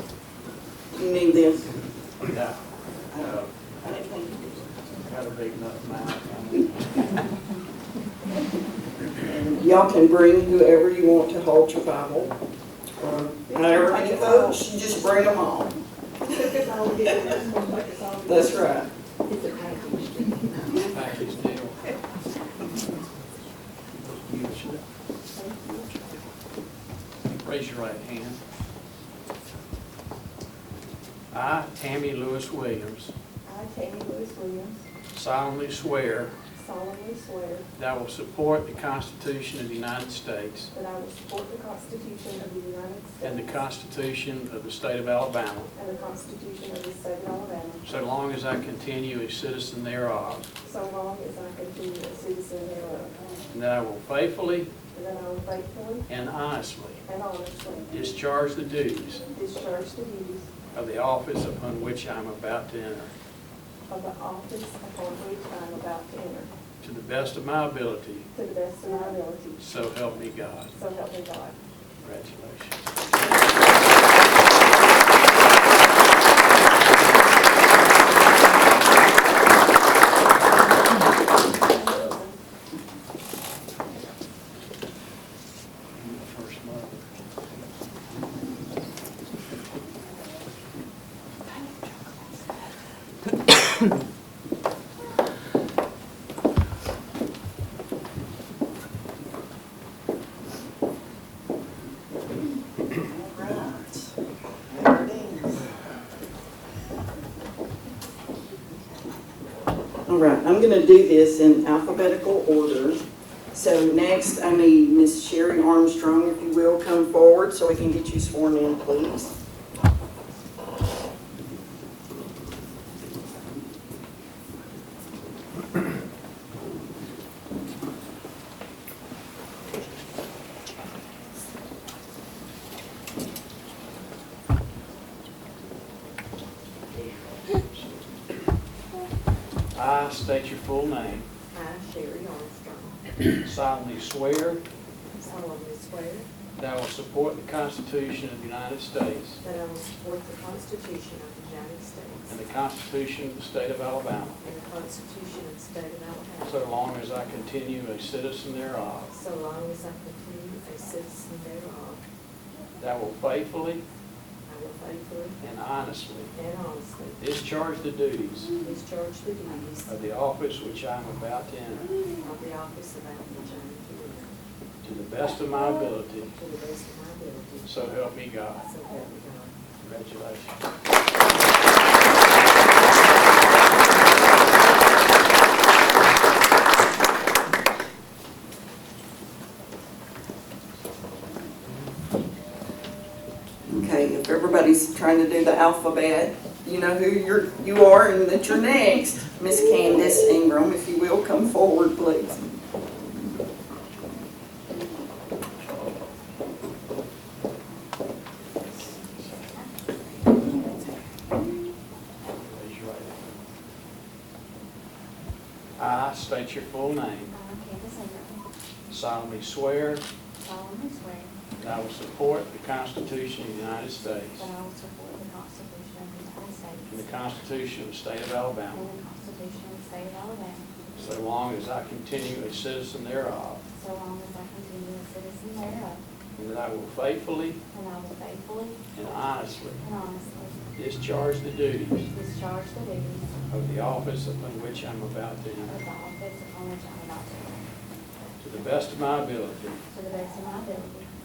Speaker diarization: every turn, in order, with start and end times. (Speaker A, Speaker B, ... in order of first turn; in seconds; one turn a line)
Speaker A: 0.9-1.7
Speaker B: 2.2-2.6
Speaker A: 3.1-4.7
Speaker B: 3.1-3.5
Speaker B: 4.8-7.2
Speaker A: 9.2-12.3
Speaker A: 13.0-15.7
Speaker C: 13.5-14.6
Speaker C: 16.2-18.7
Speaker A: 18.2-18.9
Speaker D: 19.3-20.9
Speaker B: 20.9-22.0
Speaker B: 24.0-24.8
Speaker C: 25.3-25.9
Speaker B: 27.3-28.4
Speaker B: 31.3-33.1
Speaker C: 33.5-34.8
Speaker B: 35.1-36.3
Speaker C: 36.5-37.7
Speaker B: 37.8-40.7
Speaker C: 40.7-43.5
Speaker B: 43.2-45.7
Speaker C: 45.7-47.8
Speaker B: 47.8-50.5
Speaker C: 50.6-53.3
Speaker B: 53.5-54.7
Speaker C: 54.9-56.0
Speaker B: 56.1-57.0
Speaker C: 57.0-57.9
Speaker B: 57.9-59.2
Speaker C: 59.3-60.5
Speaker B: 60.7-63.1
Speaker C: 63.9-66.5
Speaker B: 66.8-68.3
Speaker C: 68.3-69.6
Speaker B: 69.6-70.7
Speaker C: 70.7-71.6
Speaker B: 72.0-73.4
Speaker C: 81.9-82.2
Speaker B: 85.9-87.1
Speaker A: 103.0-104.1
Speaker A: 104.7-105.7
Speaker A: 110.1-119.3
Speaker B: 136.9-138.2
Speaker B: 139.7-141.3
Speaker D: 141.5-143.0
Speaker B: 143.4-144.6
Speaker D: 145.2-146.3
Speaker B: 146.6-149.4
Speaker D: 149.4-152.4
Speaker B: 152.3-154.4
Speaker D: 154.4-156.6
Speaker B: 156.4-159.1
Speaker D: 159.1-162.0
Speaker B: 162.8-163.8
Speaker D: 164.5-165.4
Speaker B: 165.4-166.3
Speaker D: 166.3-167.2
Speaker B: 167.2-168.6
Speaker D: 168.6-169.9
Speaker B: 169.8-171.9
Speaker D: 172.2-174.4
Speaker B: 174.8-176.3
Speaker D: 176.3-179.6
Speaker B: 177.6-178.6
Speaker B: 179.8-180.6
Speaker A: 193.6-202.4
Speaker B: 212.4-213.4
Speaker B: 215.8-217.3
Speaker E: 217.3-218.4
Speaker B: 218.9-220.0
Speaker E: 220.4-221.3
Speaker B: 221.6-224.5
Speaker E: 224.4-227.0
Speaker B: 226.9-228.9
Speaker E: 228.7-230.8
Speaker B: 230.9-233.6
Speaker E: 233.7-236.0
Speaker B: 236.3-237.6
Speaker E: 237.7-238.8
Speaker B: 238.9-239.8
Speaker E: 239.8-240.7
Speaker B: 240.8-242.1
Speaker E: 242.1-243.3
Speaker B: 243.5-245.8
Speaker E: 245.7-247.7
Speaker B: 248.4-249.8
Speaker E: 249.9-251.1